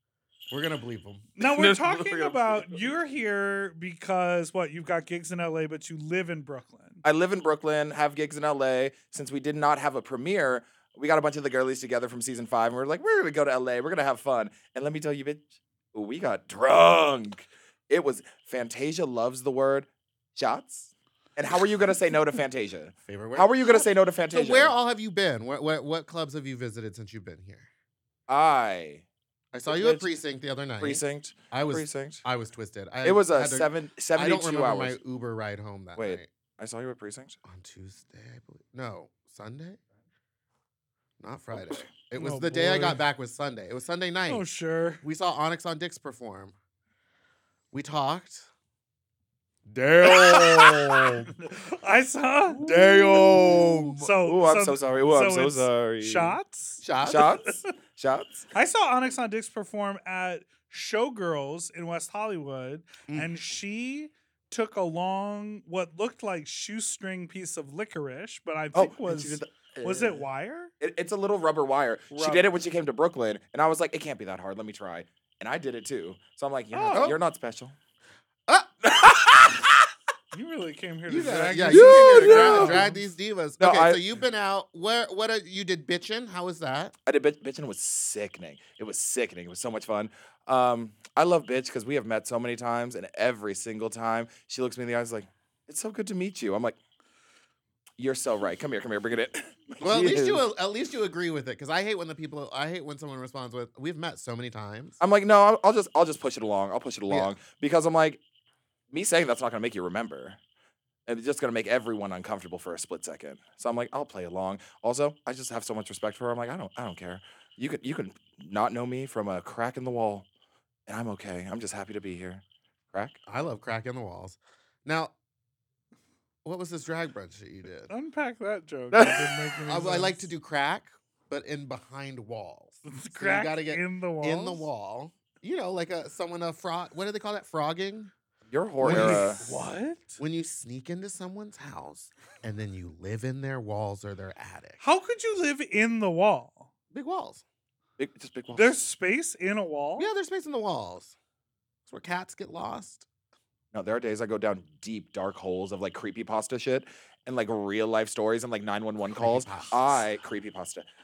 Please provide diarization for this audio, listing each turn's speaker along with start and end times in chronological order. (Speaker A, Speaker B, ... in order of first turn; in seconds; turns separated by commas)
Speaker A: 0.5-1.3, Speaker B: 1.4-7.0, Speaker C: 1.4-2.8, Speaker C: 7.0-24.7, Speaker A: 23.1-27.7, Speaker C: 28.3-29.0, Speaker A: 29.5-36.3, Speaker C: 29.7-30.1, Speaker C: 30.8-32.2, Speaker C: 33.0-35.0, Speaker C: 36.0-37.4, Speaker A: 37.4-39.8, Speaker A: 41.2-44.5, Speaker B: 42.1-43.0, Speaker B: 44.3-45.0, Speaker A: 45.0-46.5, Speaker A: 47.7-48.5, Speaker A: 49.6-51.3, Speaker B: 50.0-50.4, Speaker C: 50.1-51.1, Speaker B: 51.2-52.7, Speaker A: 52.6-54.0, Speaker C: 52.6-56.4, Speaker B: 54.0-56.9, Speaker A: 56.8-57.4, Speaker C: 57.0-58.5, Speaker B: 58.5-70.7, Speaker C: 68.7-70.2, Speaker C: 70.8-77.8, Speaker B: 72.1-72.5, Speaker B: 76.7-77.1, Speaker A: 76.9-77.2, Speaker C: 78.8-79.8, Speaker B: 80.3-83.0, Speaker C: 81.1-82.8, Speaker A: 81.1-86.9, Speaker C: 83.6-84.0, Speaker C: 87.1-96.8, Speaker C: 98.0-100.4, Speaker A: 99.8-105.0, Speaker C: 105.0-108.2, Speaker C: 108.9-110.4, Speaker C: 111.1-120.2, Speaker C: 120.9-123.2, Speaker A: 123.2-125.1, Speaker A: 126.4-127.9, Speaker B: 127.9-130.3, Speaker C: 128.9-129.2, Speaker A: 129.7-138.1, Speaker B: 132.8-134.7, Speaker C: 138.5-139.4, Speaker A: 138.8-139.6, Speaker B: 138.8-140.2, Speaker A: 140.2-144.8, Speaker B: 144.8-146.7, Speaker A: 146.9-147.4, Speaker C: 148.0-148.8, Speaker B: 148.5-150.1, Speaker A: 150.0-151.1, Speaker A: 151.8-153.1, Speaker C: 153.7-160.8, Speaker A: 159.2-159.9